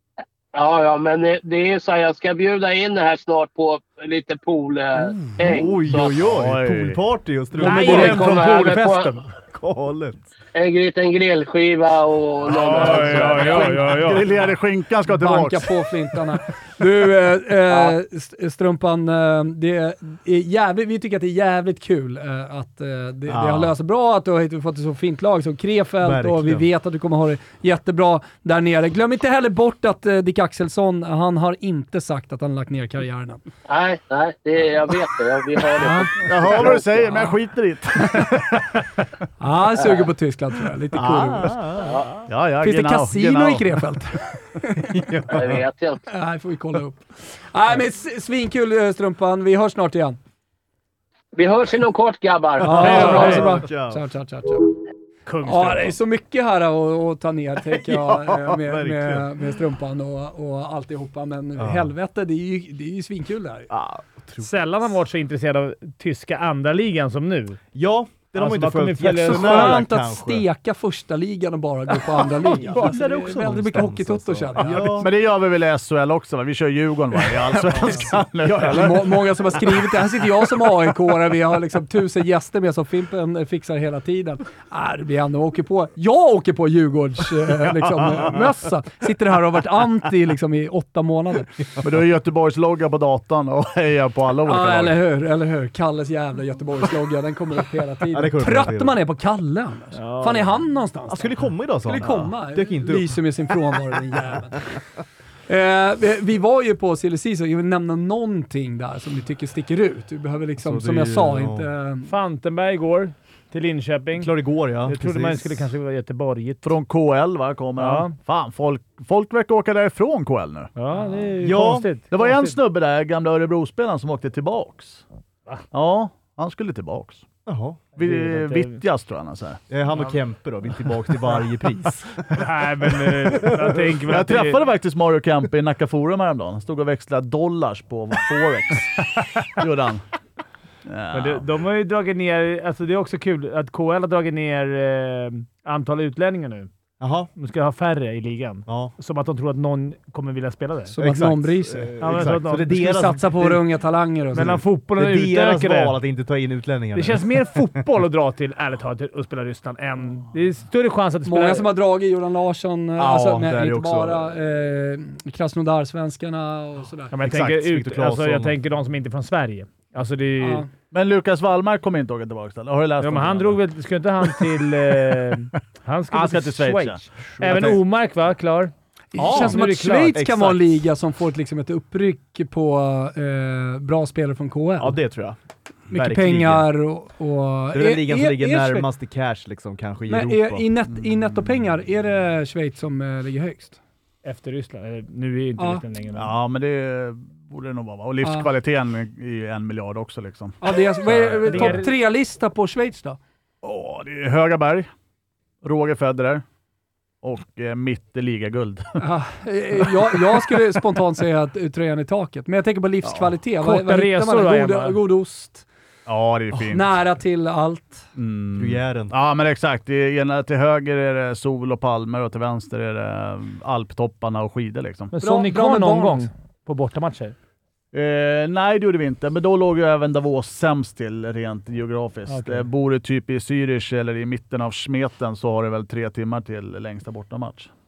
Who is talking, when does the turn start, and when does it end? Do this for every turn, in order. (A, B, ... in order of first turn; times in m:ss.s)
0:00.5-0:06.1 A
0:05.1-0:05.4 B
0:05.3-0:08.4 C
0:06.0-0:07.0 D
0:07.6-0:09.2 B
0:07.6-0:09.2 E
0:07.8-0:09.1 A
0:09.4-0:10.3 C
0:10.5-0:13.8 A
0:12.5-0:14.3 E
0:13.5-0:15.7 D
0:15.1-0:33.4 B
0:23.3-0:23.7 C
0:26.0-0:26.6 C
0:33.7-0:36.8 A
0:35.8-0:37.3 B
0:36.2-0:38.7 D
0:38.0-0:38.3 B
0:39.4-0:41.6 B
0:39.8-0:40.0 A
0:40.9-0:42.0 C
0:41.8-0:42.2 A
0:42.3-0:43.8 D
0:42.6-0:45.1 B
0:44.8-0:45.6 C
0:45.3-0:46.0 A
0:46.1-0:50.2 B
0:51.3-0:53.4 A
0:52.6-0:54.7 B
0:52.7-0:54.0 C
0:52.7-0:53.5 E
0:55.2-0:55.9 E
0:55.4-1:03.7 B
0:57.7-0:59.3 C
1:01.6-1:01.9 C
1:03.7-1:04.5 C
1:04.4-1:07.6 E
1:07.7-1:10.4 C
1:08.3-1:09.8 E
1:09.2-1:15.0 B
1:12.4-1:15.1 C
1:14.9-1:19.2 D
1:17.7-1:31.5 B
1:28.0-1:28.3 C
1:31.8-1:35.0 D
1:34.5-1:44.6 B
1:38.1-1:39.0 C
1:39.9-1:40.5 E
1:41.1-1:43.2 C
1:45.5-1:52.1 B
1:50.6-1:51.7 C
1:52.1-1:56.7 E
1:54.2-1:55.7 C
1:56.6-2:00.7 D
1:57.8-1:58.1 E
2:00.8-2:02.6 E
2:01.4-2:01.9 C
2:02.1-2:05.0 D
2:05.7-2:07.2 D
2:07.5-2:07.9 C
2:08.0-2:09.6 D
2:08.0-2:08.8 E
2:09.7-2:12.3 C
2:12.3-2:14.6 E
2:14.0-2:20.0 D
2:20.8-2:21.5 D
2:21.1-2:26.7 E
2:27.0-2:27.3 C
2:27.4-2:30.9 E
2:28.7-2:28.9 C
2:30.9-2:31.9 B
2:31.0-2:33.6 C
2:32.0-2:32.7 E
2:32.7-2:34.6 B
2:34.3-2:36.0 E
2:34.4-2:37.6 C
2:36.9-2:41.7 E
2:41.2-2:47.1 B
2:43.0-2:44.3 C
2:47.1-2:50.6 E
2:47.3-2:48.5 C
2:47.3-2:47.5 D
2:50.4-2:50.7 B
2:50.9-2:53.6 D
2:53.0-3:00.2 E
2:56.1-2:57.0 D
2:57.4-2:57.8 C
2:59.1-3:05.0 B
2:59.2-2:59.6 C
3:00.1-3:00.8 C
3:04.8-3:05.4 C
3:05.9-3:06.6 C
3:05.9-3:08.9 B
3:07.7-3:10.6 C
3:10.1-3:13.8 B
3:14.2-3:16.3 E
3:15.6-3:15.8 B
3:16.2-3:21.8 D
3:18.2-3:18.5 B
3:20.6-3:23.2 B
3:21.4-3:21.9 E
3:23.6-3:24.9 D
3:25.6-3:26.4 D
3:27.2-3:29.0 D
3:29.0-3:35.6 B
3:29.8-3:30.6 D
3:33.6-3:35.0 E
3:36.0-3:36.9 D
3:36.5-3:38.1 B
3:38.1-3:45.1 D
3:38.6-3:39.1 C
3:45.1-3:47.3 E
3:45.2-3:46.3 B
3:47.9-3:57.7 D
3:52.3-3:52.6 E